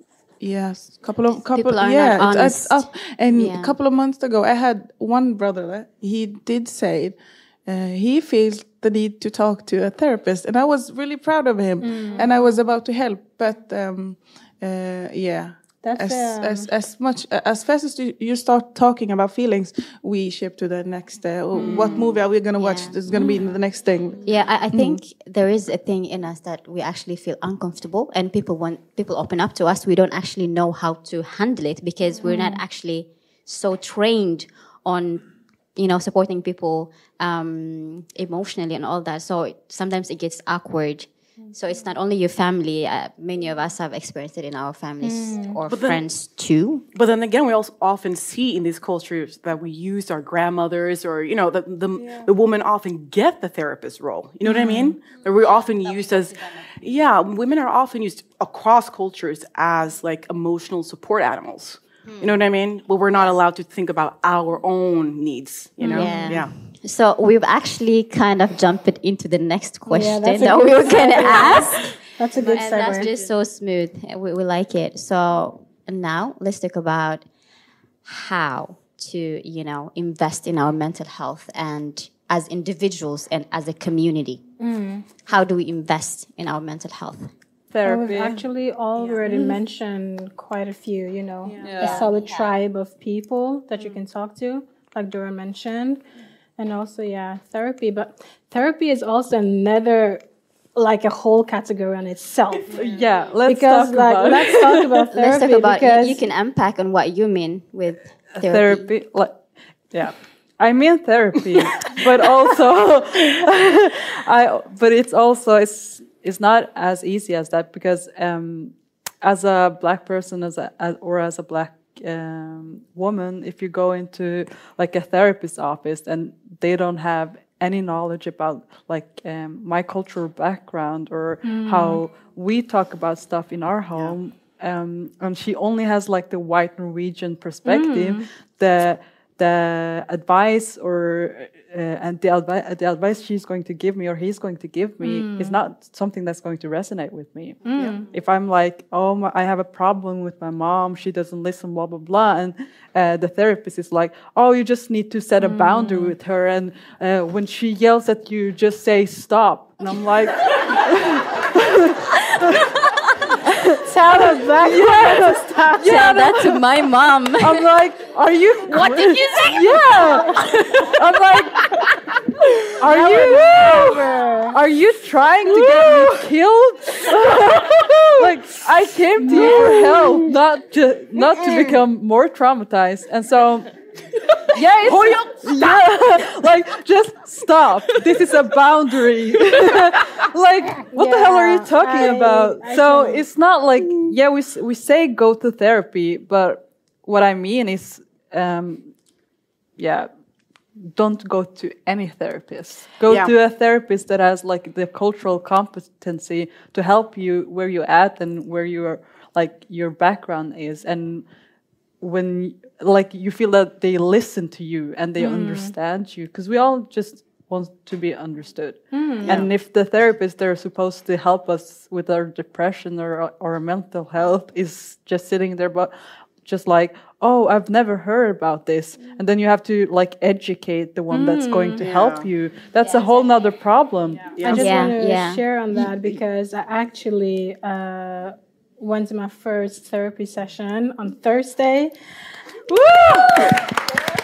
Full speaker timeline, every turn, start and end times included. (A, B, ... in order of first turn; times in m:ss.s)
0:00.4-0:25.0 A
0:01.3-0:03.8 B
0:11.8-0:12.3 C
0:15.8-0:16.7 C
0:21.5-0:22.1 D
0:22.6-0:23.0 B
0:24.2-0:46.8 B
0:32.3-0:32.6 C
0:45.0-0:45.6 C
0:45.7-0:46.1 D
0:46.9-1:06.5 D
0:54.5-0:54.9 C
0:55.4-0:56.6 B
1:02.0-1:02.4 B
1:05.8-1:06.4 C
1:05.8-1:17.2 B
1:09.8-1:13.1 C
1:18.0-1:24.4 B
1:24.6-1:25.0 C
1:25.2-1:27.3 B
1:27.7-1:28.4 E
1:27.8-1:36.0 C
1:31.6-1:32.1 E
1:31.7-1:32.5 B
1:36.6-1:40.2 C
1:40.7-1:42.8 C
1:42.7-1:45.1 E
1:43.4-1:46.2 C
1:45.1-1:48.9 B
1:48.3-1:49.4 E
1:49.9-2:42.6 E
2:11.4-2:12.0 C
2:17.6-2:18.2 C
2:25.0-2:25.6 C
2:27.6-2:28.0 C
2:27.7-2:28.0 D
2:35.4-2:36.1 C
2:43.4-2:46.7 E
2:43.8-2:46.2 C
2:45.8-2:47.6 B
2:47.4-2:51.7 E
2:48.7-2:49.8 B
2:49.7-2:50.4 C
2:52.8-3:03.7 E
2:52.8-2:54.6 C
2:59.2-3:00.2 C
3:04.5-3:18.9 E
3:04.8-3:05.8 D
3:10.9-3:13.2 C
3:19.8-3:20.1 E
3:20.8-3:31.2 E
3:23.1-3:23.3 D
3:32.0-3:54.9 E
3:35.2-3:35.7 C
3:38.9-3:39.4 C
3:51.1-3:51.8 C
3:51.8-3:52.3 D
3:52.8-3:53.2 B
3:54.4-3:54.7 D
3:54.4-4:01.9 C
3:54.5-3:55.4 B
4:02.7-4:03.6 E